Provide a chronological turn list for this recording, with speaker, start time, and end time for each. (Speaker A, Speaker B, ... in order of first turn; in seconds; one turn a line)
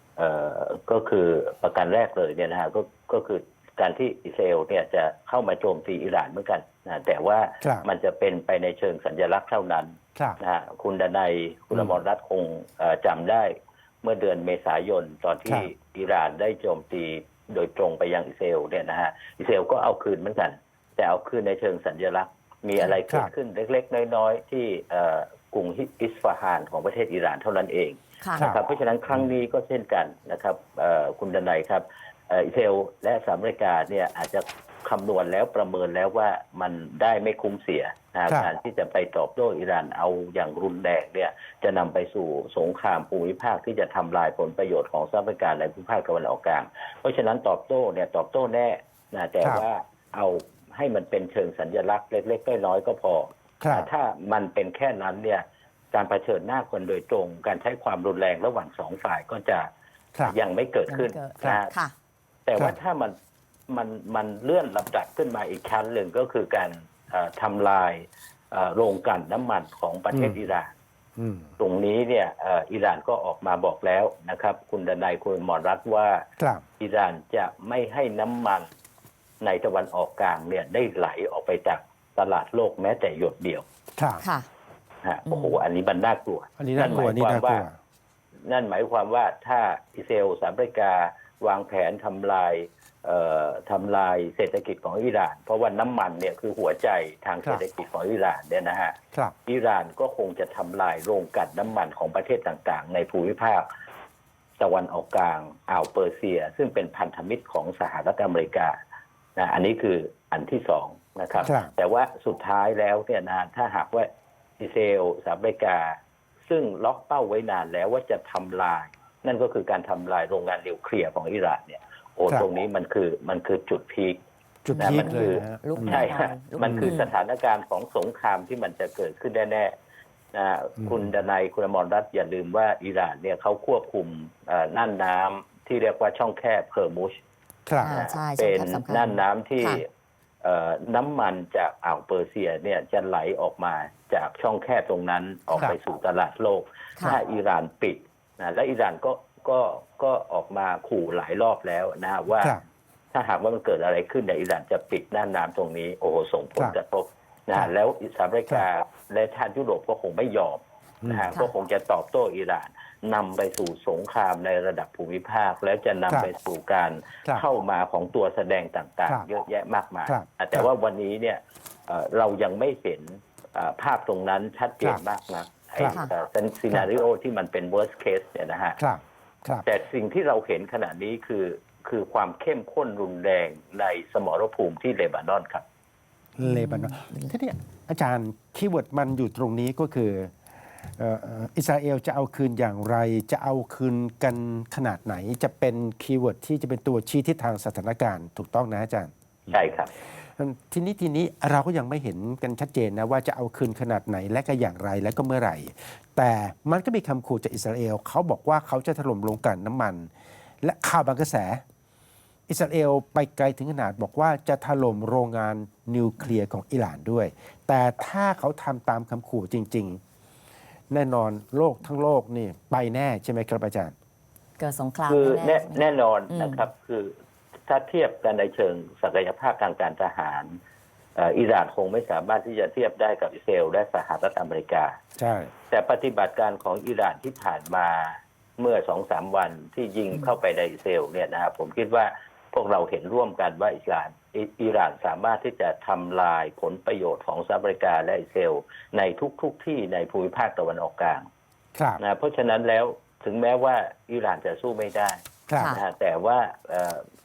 Speaker A: 0.2-59.7
Speaker B: 7.6-7.9
Speaker C: 28.2-28.5
Speaker B: 53.6-53.9
Speaker A: 60.3-61.8
Speaker C: 60.9-61.9
Speaker A: 62.5-63.1
Speaker A: 63.7-70.7
Speaker B: 70.1-70.4
Speaker B: 71.2-71.5
Speaker A: 71.6-76.2
Speaker B: 76.4-76.6
Speaker A: 76.8-78.7
Speaker A: 79.4-83.7
Speaker B: 84.0-84.2
Speaker C: 84.2-84.5
Speaker A: 85.0-87.7
Speaker C: 85.3-85.6
Speaker B: 86.6-87.8
Speaker C: 86.8-87.1
Speaker A: 88.5-103.7
Speaker A: 104.6-108.8
Speaker A: 109.4-114.1
Speaker B: 111.4-111.7
Speaker A: 114.6-116.0
Speaker A: 116.5-124.2
Speaker B: 124.7-126.1
Speaker C: 124.7-127.1
Speaker A: 124.8-129.7
Speaker B: 126.6-127.0
Speaker A: 130.3-137.2
Speaker B: 137.7-138.0
Speaker C: 137.8-139.8
Speaker A: 137.8-139.9
Speaker A: 140.4-152.6
Speaker B: 152.4-152.6
Speaker A: 153.1-178.8
Speaker B: 161.0-161.4
Speaker B: 170.1-170.7
Speaker C: 175.8-176.1
Speaker B: 178.8-179.7
Speaker A: 179.7-185.6
Speaker B: 186.4-190.3
Speaker C: 186.4-187.3
Speaker B: 190.9-199.7
Speaker A: 199.5-199.9
Speaker B: 200.2-210.1
Speaker B: 210.6-211.6
Speaker B: 212.5-220.0
Speaker B: 220.9-223.9
Speaker C: 224.6-226.7
Speaker A: 225.1-227.1
Speaker A: 227.7-230.6
Speaker A: 231.2-235.0
Speaker B: 235.2-235.5
Speaker A: 235.7-251.2
Speaker B: 251.8-252.0
Speaker A: 252.0-257.0
Speaker B: 255.5-255.7